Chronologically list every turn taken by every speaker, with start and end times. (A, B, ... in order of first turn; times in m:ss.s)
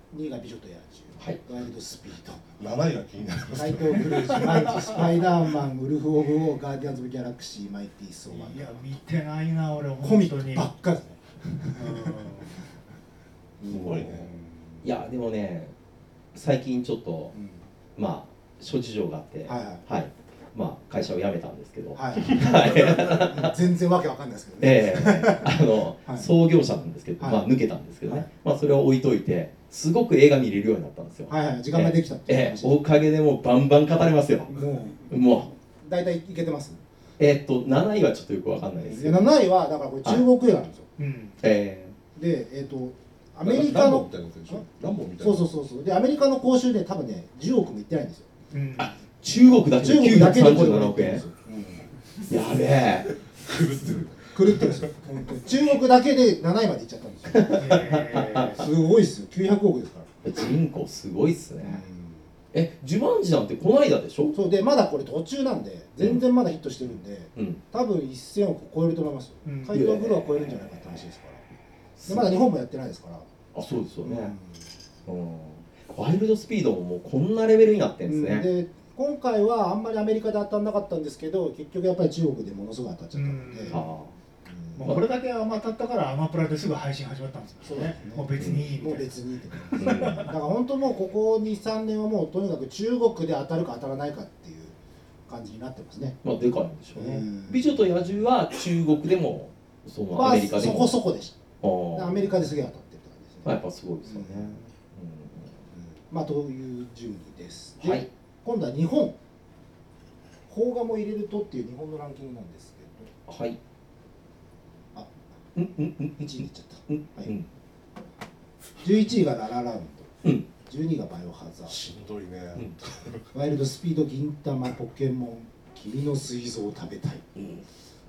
0:00.1-0:02.4 A
0:02.6-0:05.0 B
0:03.5-0:09.0 A
0:04.4-0:04.9 C
0:08.3-0:10.7 C
0:10.0-0:12.3 A
0:11.8-0:12.6 C
0:13.6-0:14.8 A
0:13.7-0:14.3 B
0:14.8-0:15.7 D
0:16.4-0:17.3 D
0:17.3-0:17.6 A
0:18.0-0:23.5 D
0:19.5-0:19.8 A
0:22.0-0:26.3 A
0:24.6-0:35.5 D
0:27.2-0:27.4 A
0:31.3-0:32.8 A
0:34.5-0:36.8 A
0:37.2-0:39.3 D
0:38.8-0:40.9 A
0:41.0-0:41.4 C
0:41.4-0:41.9 D
0:42.2-0:44.6 A
0:43.4-0:45.5 B
0:45.2-0:48.3 A
0:48.5-0:48.9 C
0:49.2-0:51.2 D
0:49.8-0:51.9 A
0:52.3-0:53.1 D
0:53.4-0:54.9 B
0:54.3-0:57.9 A
0:57.3-0:58.6 D
0:57.5-0:58.6 C
0:58.5-1:00.1 A
1:00.2-1:01.8 D
1:01.6-1:02.3 A
1:02.5-1:04.4 D
1:04.3-1:11.4 A
1:07.4-1:07.6 D
1:09.4-1:09.8 C
1:09.7-1:10.7 D
1:12.0-1:12.4 D
1:12.1-1:13.3 A
1:13.5-1:14.3 D
1:14.0-1:14.7 A
1:15.1-1:18.5 D
1:18.1-1:23.8 A
1:23.2-1:23.9 C
1:23.7-1:24.1 D
1:24.5-1:25.0 A
1:24.8-1:29.1 C
1:27.6-1:34.8 A
1:28.4-1:28.7 D
1:29.7-1:30.3 C
1:29.8-1:30.3 D
1:35.3-1:36.2 A
1:36.2-1:41.0 D
1:37.0-1:37.8 A
1:40.1-1:41.4 A
1:41.6-1:42.3 D
1:41.9-1:43.5 A
1:43.4-1:45.5 D
1:44.0-1:44.7 A
1:45.7-1:49.2 A
1:47.8-1:48.1 D
1:50.5-1:53.1 A
1:53.3-1:53.6 D
1:55.6-1:57.5 D
1:56.2-1:57.3 A
1:58.8-2:00.1 A
2:00.6-2:01.8 A
2:01.7-2:03.2 B
2:03.3-2:07.3 A
2:07.4-2:07.6 D